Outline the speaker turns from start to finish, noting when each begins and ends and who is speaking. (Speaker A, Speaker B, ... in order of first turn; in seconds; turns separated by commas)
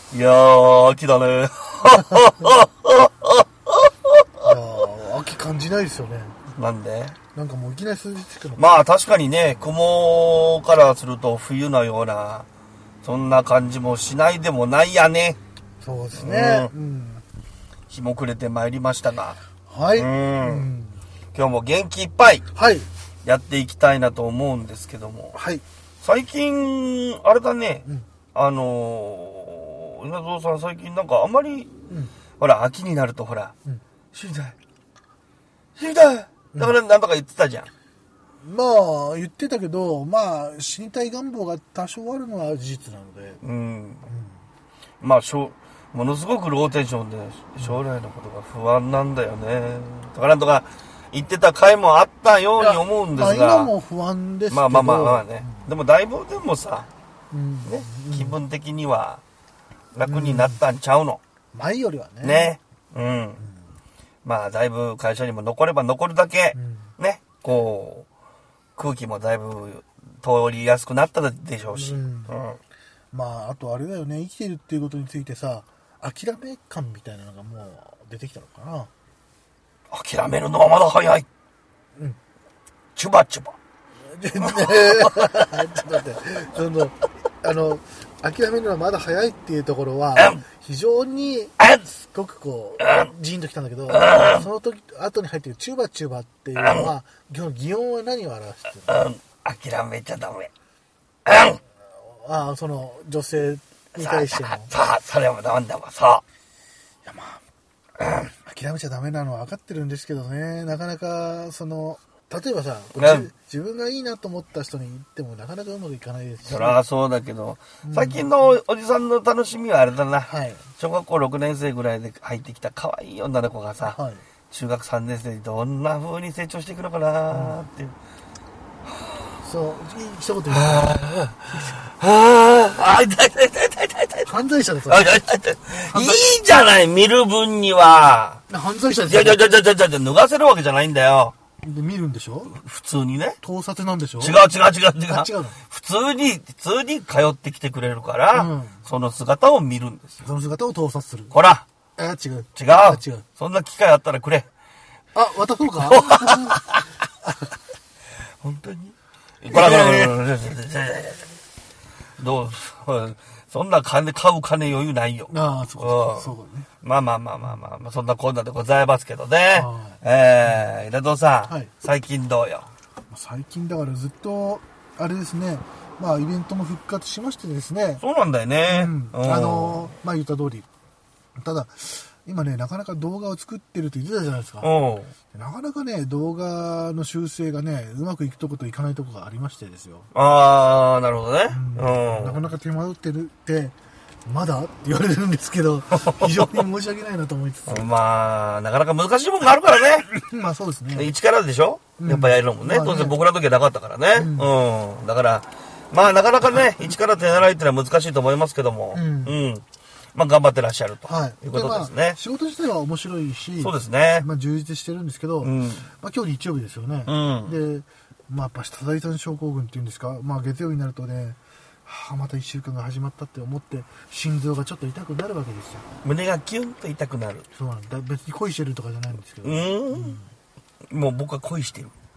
Speaker A: 0.1-4.5, Speaker B: 4.4-6.4, Speaker A: 6.5-7.2, Speaker B: 7.3-8.6, Speaker A: 8.6-12.4, Speaker A: 13.0-15.4, Speaker B: 15.8-17.2, Speaker A: 16.1-16.7, Speaker A: 17.9-19.4, Speaker B: 19.7-21.0, Speaker A: 19.9-20.7, Speaker A: 21.3-22.4, Speaker B: 22.5-22.9, Speaker A: 23.2-25.4, Speaker B: 25.3-25.6, Speaker A: 26.0-31.7, Speaker A: 32.4-33.5, Speaker A: 34.1-34.5, Speaker A: 35.8-37.7, Speaker B: 38.4-43.4, Speaker A: 43.4-44.1, Speaker B: 44.1-44.4, Speaker A: 45.0-53.7, Speaker B: 52.6-55.7, Speaker A: 54.5-56.9, Speaker B: 57.3-58.4, Speaker A: 57.6-59.2, Speaker A: 59.9-61.2, Speaker B: 60.0-60.6, Speaker B: 61.5-62.5, Speaker A: 62.2-63.4, Speaker A: 64.2-68.1, Speaker B: 66.5-66.9, Speaker A: 68.8-72.6, Speaker B: 71.7-72.3, Speaker B: 73.1-78.9, Speaker A: 79.9-81.3, Speaker A: 83.0-83.6, Speaker B: 84.1-99.0, Speaker A: 84.4-85.5, Speaker A: 90.1-90.4, Speaker A: 91.6-91.8, Speaker A: 92.8-93.1, Speaker A: 93.9-94.5, Speaker A: 96.5-96.9, Speaker A: 98.9-100.5, Speaker A: 101.2-101.6, Speaker B: 102.0-104.7, Speaker A: 104.0-106.2, Speaker B: 107.0-107.4, Speaker A: 108.0-108.3, Speaker B: 108.3-116.8, Speaker A: 113.0-113.3, Speaker A: 116.5-124.0, Speaker B: 117.8-118.3, Speaker B: 120.2-120.6, Speaker B: 123.8-124.2, Speaker A: 124.5-127.9, Speaker B: 127.3-127.6, Speaker B: 129.4-130.9, Speaker A: 130.5-138.4, Speaker B: 134.2-135.2, Speaker B: 135.8-136.2, Speaker B: 138.5-139.4, Speaker A: 139.1-141.3, Speaker B: 141.6-142.5, Speaker A: 142.5-143.4, Speaker B: 143.4-144.4, Speaker A: 144.2-150.2, Speaker B: 145.0-145.6, Speaker B: 148.3-148.8, Speaker B: 150.2-151.3, Speaker A: 151.3-151.7, Speaker B: 152.0-153.2, Speaker A: 152.6-154.5, Speaker B: 155.1-156.7, Speaker A: 155.8-156.8, Speaker A: 158.4-161.2, Speaker B: 159.5-160.2, Speaker A: 162.2-172.7, Speaker B: 165.3-166.7, Speaker B: 169.5-170.6, Speaker B: 173.1-178.0, Speaker A: 178.0-179.9, Speaker B: 178.7-180.7, Speaker B: 181.4-184.7, Speaker A: 184.6-185.1, Speaker B: 185.3-190.1, Speaker A: 190.1-192.4, Speaker B: 191.5-193.7, Speaker B: 194.2-197.9, Speaker A: 195.9-196.5, Speaker A: 197.7-200.1, Speaker B: 200.1-201.1, Speaker A: 200.9-209.6, Speaker B: 202.0-203.2, Speaker B: 204.1-204.5, Speaker B: 208.9-209.4, Speaker A: 210.1-212.2, Speaker B: 211.0-226.0, Speaker A: 213.6-214.3, Speaker A: 215.4-215.9, Speaker A: 217.1-217.6, Speaker A: 226.0-227.5, Speaker B: 227.5-230.3, Speaker A: 229.4-230.2, Speaker A: 230.9-231.9